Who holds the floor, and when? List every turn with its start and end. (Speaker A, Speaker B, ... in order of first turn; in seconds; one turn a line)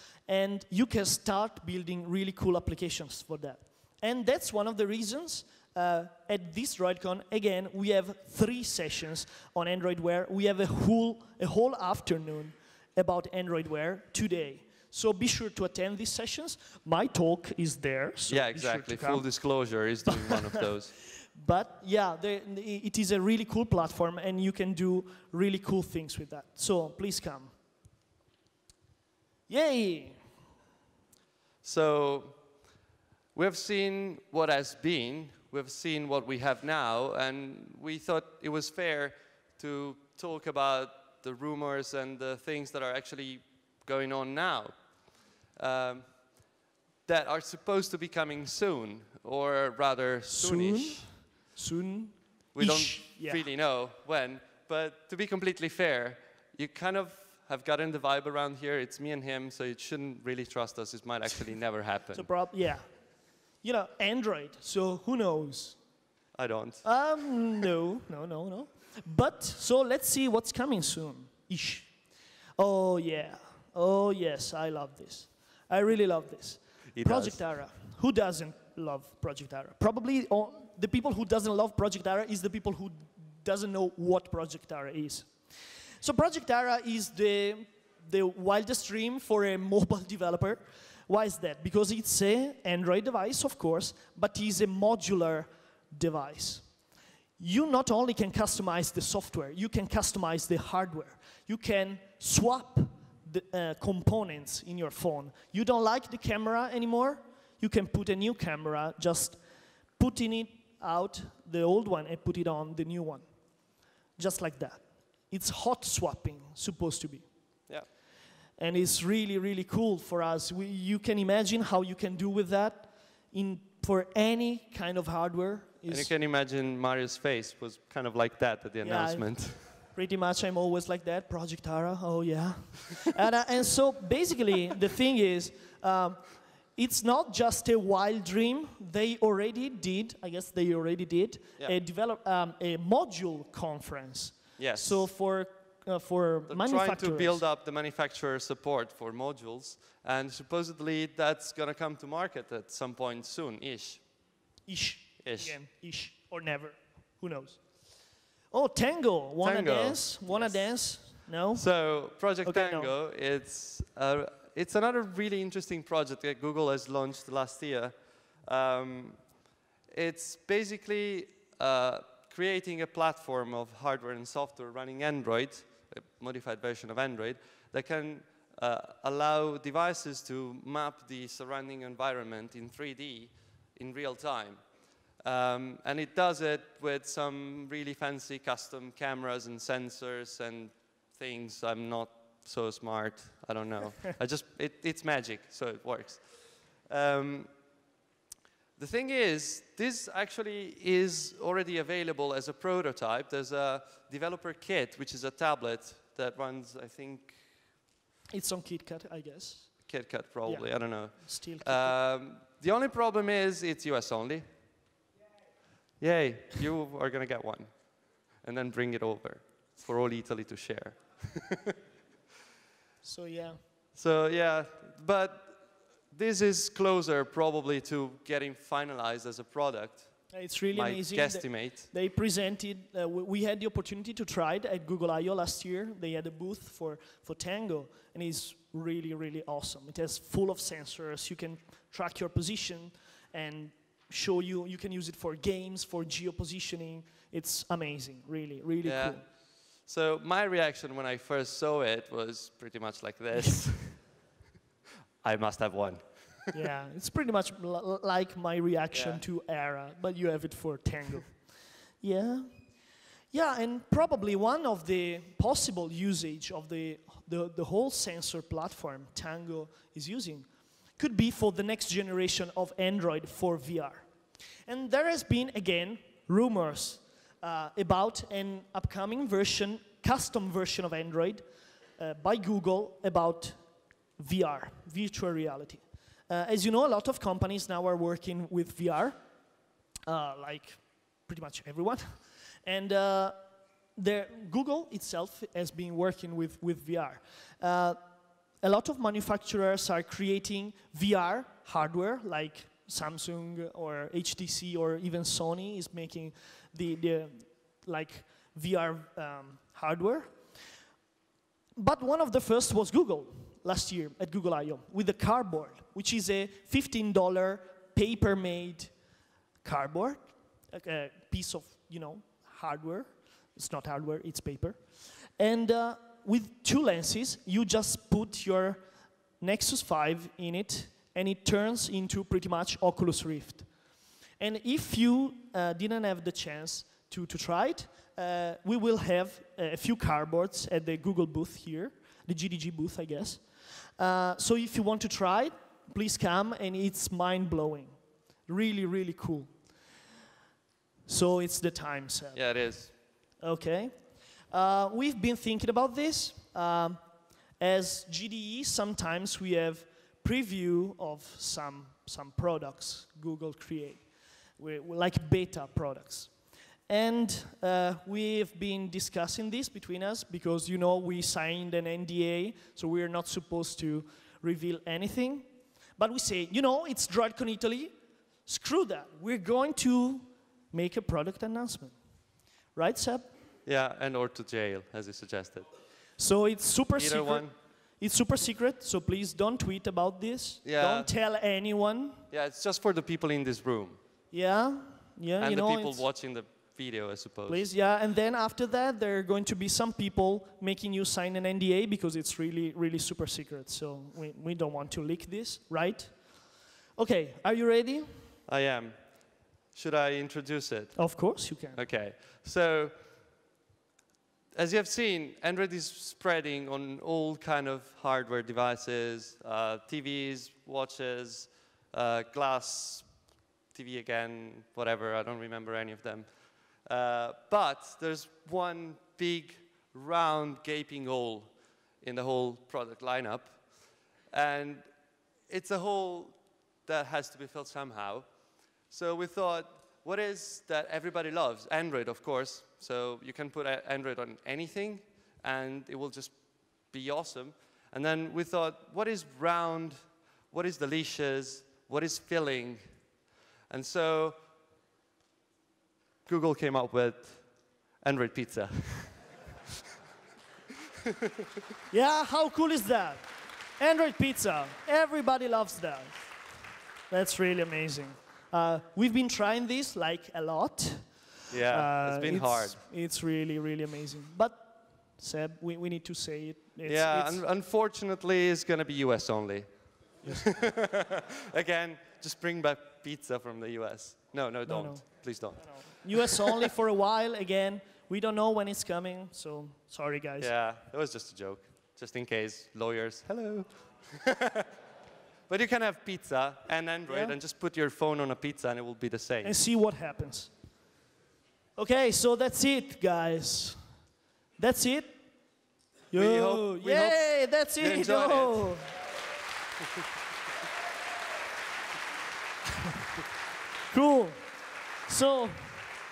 Speaker A: 0.3-19.3
Speaker B: 18.3-20.9
Speaker A: 20.1-20.7
Speaker A: 21.3-27.5
Speaker A: 29.5-30.2
Speaker B: 31.6-32.4
Speaker B: 33.4-44.9
Speaker B: 45.5-46.5
Speaker B: 47.1-51.1
Speaker A: 50.3-53.4
Speaker B: 52.5-62.3
Speaker A: 62.1-65.8
Speaker B: 66.3-67.2
Speaker A: 66.8-72.0
Speaker A: 72.6-85.3
Speaker B: 76.9-77.4
Speaker A: 86.0-96.7
Speaker A: 97.4-109.4
Speaker A: 110.0-113.3
Speaker A: 114.2-117.3
Speaker A: 118.6-126.1
Speaker B: 125.9-129.6
Speaker A: 128.8-147.4
Speaker B: 144.6-145.1
Speaker B: 146.5-154.0
Speaker A: 154.7-157.6
Speaker B: 155.2-155.6
Speaker A: 158.5-161.7
Speaker B: 159.4-160.8
Speaker B: 161.5-169.3
Speaker A: 162.4-162.9
Speaker B: 169.9-184.7
Speaker B: 185.2-197.5
Speaker B: 198.8-207.4
Speaker A: 208.3-209.9
Speaker B: 209.9-214.4
Speaker A: 210.5-212.0
Speaker B: 216.0-217.7
Speaker B: 218.3-221.8
Speaker A: 223.0-223.6
Speaker B: 223.9-225.6
Speaker B: 226.1-231.9
Speaker A: 230.3-249.2
Speaker B: 248.8-249.3
Speaker B: 249.8-254.1
Speaker B: 255.2-256.5
Speaker A: 256.5-261.5
Speaker B: 258.9-259.2
Speaker A: 262.0-262.5
Speaker A: 263.3-274.1
Speaker A: 274.7-281.4
Speaker A: 282.0-283.6
Speaker A: 284.2-289.2
Speaker A: 290.1-293.4
Speaker A: 294.0-298.0
Speaker A: 298.6-310.5
Speaker A: 311.8-318.9
Speaker A: 319.6-324.9
Speaker A: 325.4-328.8
Speaker A: 329.4-333.7
Speaker A: 334.4-343.5
Speaker A: 344.0-349.5
Speaker A: 351.1-357.0
Speaker B: 352.3-352.9
Speaker A: 357.6-364.1
Speaker A: 364.6-366.4
Speaker A: 366.9-375.5
Speaker A: 376.0-377.9
Speaker A: 378.5-381.9
Speaker A: 382.8-383.3
Speaker B: 383.7-385.7
Speaker A: 386.2-392.2
Speaker B: 387.0-387.5
Speaker B: 390.6-391.1
Speaker B: 392.3-394.0
Speaker A: 394.3-396.0
Speaker B: 395.4-397.7
Speaker A: 397.5-408.3
Speaker B: 408.5-411.1
Speaker A: 411.0-411.8
Speaker B: 411.8-412.9
Speaker B: 414.6-423.1
Speaker B: 423.7-433.7
Speaker B: 434.3-434.9
Speaker B: 435.5-438.3
Speaker B: 438.9-452.8
Speaker B: 453.7-454.4
Speaker B: 456.3-459.2
Speaker B: 461.1-461.4
Speaker A: 461.9-463.2
Speaker A: 463.8-466.2
Speaker A: 467.1-477.4
Speaker B: 471.5-472.8
Speaker B: 476.9-486.4
Speaker A: 480.2-480.5
Speaker A: 484.7-490.5
Speaker B: 490.4-494.7
Speaker B: 495.5-499.5
Speaker A: 497.1-497.4
Speaker A: 499.4-500.5
Speaker A: 501.8-503.8
Speaker A: 504.6-505.2
Speaker A: 506.1-508.9
Speaker B: 506.1-508.7
Speaker A: 513.9-514.4
Speaker A: 515.1-515.8